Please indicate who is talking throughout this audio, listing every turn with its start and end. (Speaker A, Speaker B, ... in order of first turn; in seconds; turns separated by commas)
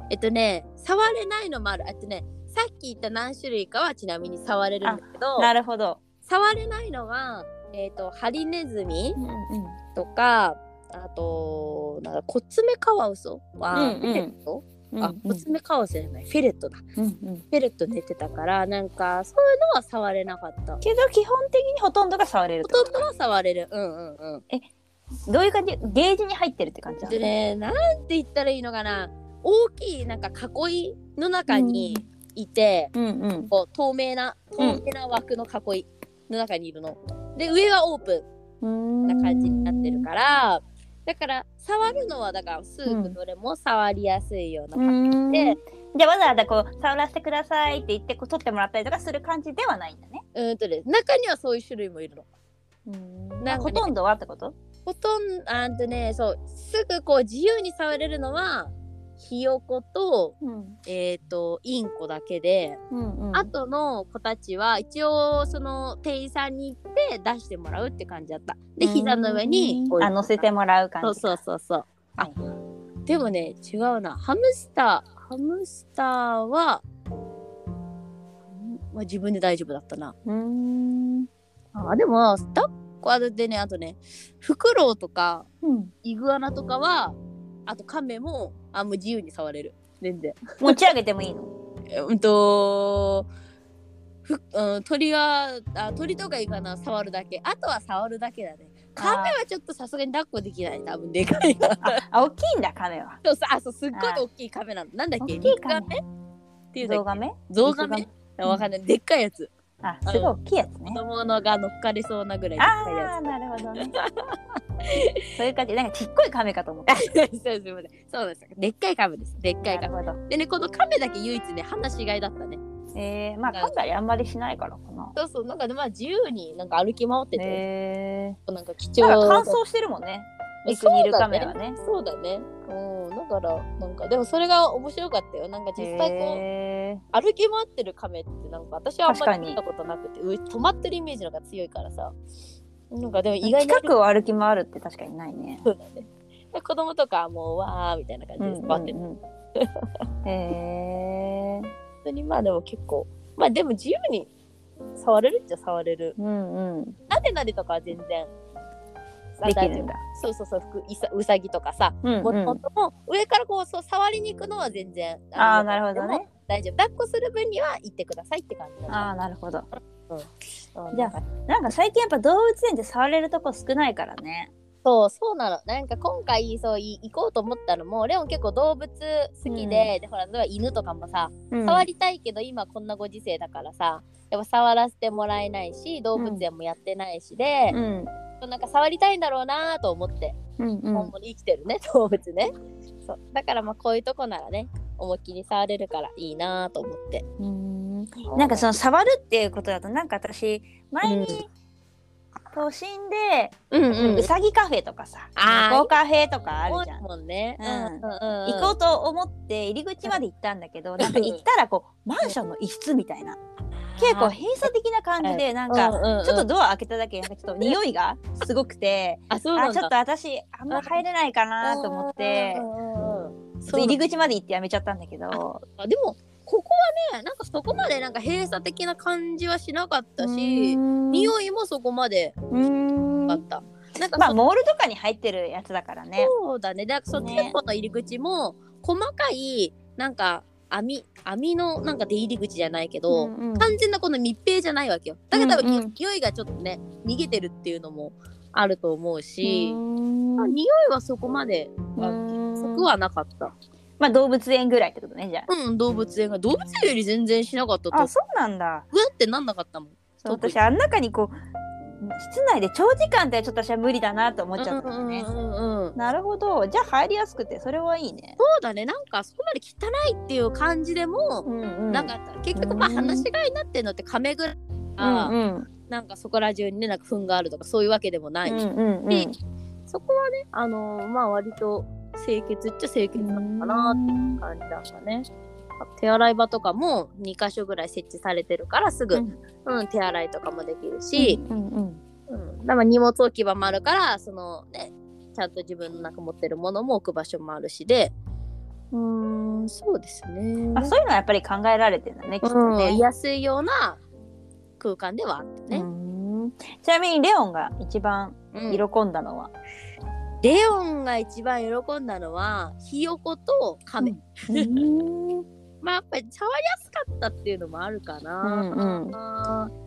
Speaker A: 0.1-5.5, Speaker B: 4.8-6.0, Speaker A: 6.2-9.2, Speaker B: 9.2-9.8, Speaker A: 9.9-16.8, Speaker B: 13.7-14.3, Speaker B: 14.9-15.4, Speaker B: 17.0-17.4, Speaker A: 17.5-20.8, Speaker B: 20.8-23.0, Speaker A: 22.6-24.4, Speaker B: 25.3-27.3, Speaker A: 27.0-32.9, Speaker B: 31.5-32.1, Speaker B: 32.9-33.5, Speaker A: 33.5-38.3, Speaker B: 38.6-40.1, Speaker A: 39.1-45.6, Speaker B: 42.9-43.2, Speaker B: 44.8-50.2, Speaker A: 50.4-52.3, Speaker B: 52.9-54.5, Speaker A: 53.4-53.9, Speaker A: 54.9-60.4, Speaker B: 60.4-60.8, Speaker A: 60.9-62.8, Speaker B: 62.9-63.5, Speaker A: 63.3-70.4, Speaker B: 68.8-71.4, Speaker A: 71.0-72.3, Speaker B: 72.2-72.4, Speaker A: 73.1-76.8, Speaker A: 78.5-80.1, Speaker B: 80.3-81.3, Speaker A: 81.7-85.5, Speaker B: 85.6-85.9, Speaker A: 86.0-90.9, Speaker B: 90.6-91.5, Speaker A: 91.9-93.3, Speaker A: 94.2-102.0, Speaker B: 99.0-99.4, Speaker B: 101.8-103.2, Speaker A: 103.2-106.0, Speaker B: 103.9-104.2, Speaker B: 105.2-105.9, Speaker A: 106.7-109.5, Speaker B: 106.8-108.7, Speaker B: 109.8-111.0, Speaker A: 110.1-110.3, Speaker A: 110.9-113.2, Speaker B: 112.6-114.0, Speaker A: 113.8-114.3, Speaker B: 115.3-117.1, Speaker A: 116.9-122.6, Speaker B: 119.6-120.2, Speaker B: 123.0-125.2, Speaker A: 123.5-123.8, Speaker A: 125.2-127.6, Speaker B: 127.4-128.4, Speaker A: 128.5-129.6, Speaker B: 129.0-131.8, Speaker A: 130.7-136.4, Speaker B: 135.8-137.0, Speaker A: 137.1-142.2, Speaker B: 139.1-139.6, Speaker A: 142.9-143.9, Speaker B: 143.4-145.6, Speaker A: 145.7-149.0, Speaker B: 148.4-149.2, Speaker B: 150.2-151.7, Speaker A: 152.1-154.3, Speaker A: 155.0-156.2, Speaker B: 156.2-157.0, Speaker A: 157.1-158.3, Speaker A: 159.4-169.1, Speaker B: 159.4-160.0, Speaker B: 162.0-162.6, Speaker B: 165.4-166.3, Speaker B: 168.9-169.7, Speaker A: 169.8-171.2, Speaker B: 170.9-174.5, Speaker A: 174.8-187.8, Speaker B: 179.5-179.9, Speaker B: 181.5-181.9, Speaker B: 186.2-186.4, Speaker B: 187.7-188.1, Speaker A: 188.4-190.4, Speaker B: 190.6-191.1, Speaker A: 190.9-192.5, Speaker A: 193.0-197.2, Speaker B: 197.4-201.5, Speaker A: 198.2-198.7, Speaker A: 201.1-201.4, Speaker B: 202.5-207.0, Speaker A: 203.7-204.3, Speaker A: 205.4-205.9, Speaker A: 206.7-208.8, Speaker B: 207.6-213.4, Speaker A: 211.0-211.4, Speaker A: 213.8-214.4, Speaker B: 214.0-222.7, Speaker A: 215.2-216.5, Speaker A: 219.3-219.9, Speaker A: 220.7-221.0, Speaker A: 221.6-224.0, Speaker B: 223.7-225.6, Speaker A: 225.3-232.3, Speaker B: 230.2-231.3, Speaker B: 232.5-233.4, Speaker A: 233.3-234.4, Speaker B: 234.1-236.3, Speaker A: 236.2-249.8, Speaker B: 237.2-237.6, Speaker B: 243.1-243.8, Speaker B: 245.3-245.9, Speaker B: 249.4-250.6, Speaker A: 250.4-253.5, Speaker B: 252.0-252.9, Speaker B: 254.0-255.5, Speaker A: 255.5-258.1, Speaker B: 257.9-258.9, Speaker A: 258.9-260.6, Speaker B: 260.2-261.4, Speaker B: 262.0-265.3, Speaker A: 264.6-266.0, Speaker B: 266.0-268.4, Speaker A: 268.4-275.4, Speaker B: 271.4-273.3, Speaker B: 275.0-275.7, Speaker A: 275.9-279.3, Speaker B: 278.4-279.4, Speaker A: 279.9-285.3, Speaker B: 283.1-284.4, Speaker A: 285.8-291.4, Speaker B: 289.1-289.4, Speaker B: 291.2-292.0, Speaker A: 292.3-298.1, Speaker A: 298.9-300.9, Speaker B: 300.8-303.1, Speaker A: 302.4-304.0, Speaker A: 304.8-305.9, Speaker B: 305.7-309.5, Speaker A: 308.5-308.8, Speaker A: 310.4-314.9, Speaker B: 314.0-315.5, Speaker A: 315.8-319.7, Speaker B: 318.4-319.2